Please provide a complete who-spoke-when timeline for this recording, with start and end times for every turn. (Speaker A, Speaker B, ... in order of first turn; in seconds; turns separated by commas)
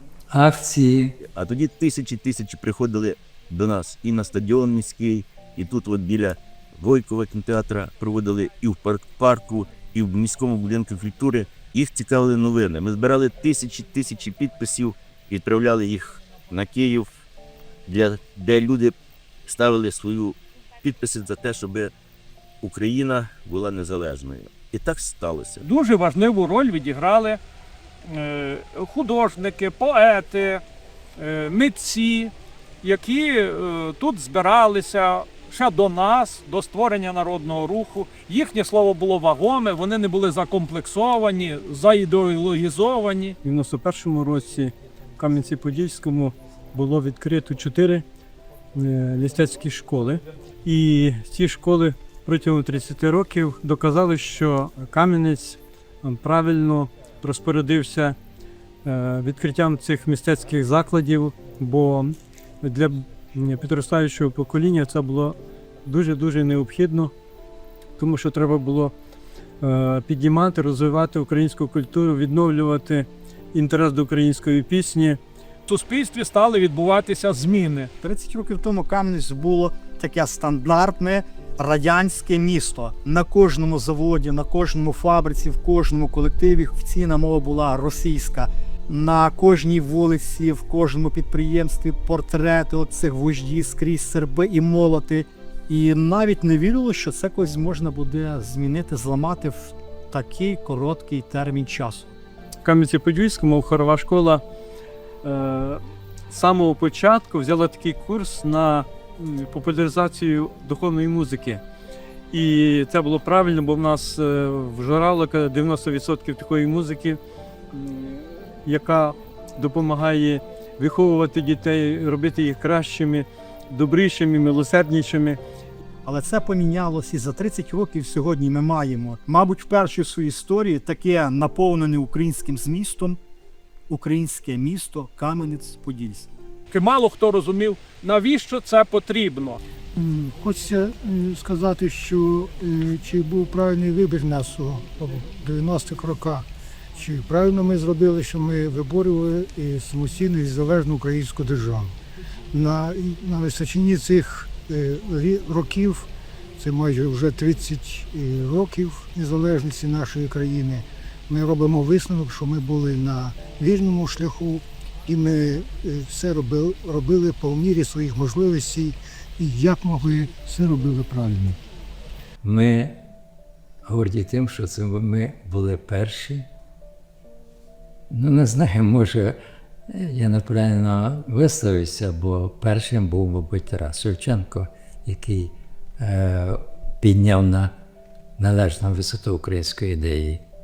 Speaker A: 0.3-1.2, Speaker B: 1.3-17.2, Speaker B: 17.9-18.9, Speaker B: 19.5-21.9, Speaker B: 22.6-25.6, Speaker C: 25.6-27.4, Speaker C: 28.1-30.6, Speaker C: 31.2-43.4, Speaker D: 43.4-48.0, Speaker D: 48.8-58.2, Speaker D: 58.9-67.1, Speaker D: 68.0-68.9, Speaker D: 69.6-75.2, Speaker C: 75.7-77.9, Speaker E: 78.0-102.1, Speaker D: 102.6-104.4, Speaker D: 105.2-111.6, Speaker D: 112.3-117.2, Speaker D: 117.7-125.4, Speaker E: 126.0-133.2, Speaker E: 133.9-136.3, Speaker C: 136.7-139.6, Speaker F: 139.9-146.5, Speaker F: 147.0-152.0, Speaker F: 152.5-171.6, Speaker A: 172.4-173.0, Speaker A: 173.9-176.5, Speaker A: 178.1-179.4, Speaker A: 179.9-187.7, Speaker A: 188.4-190.4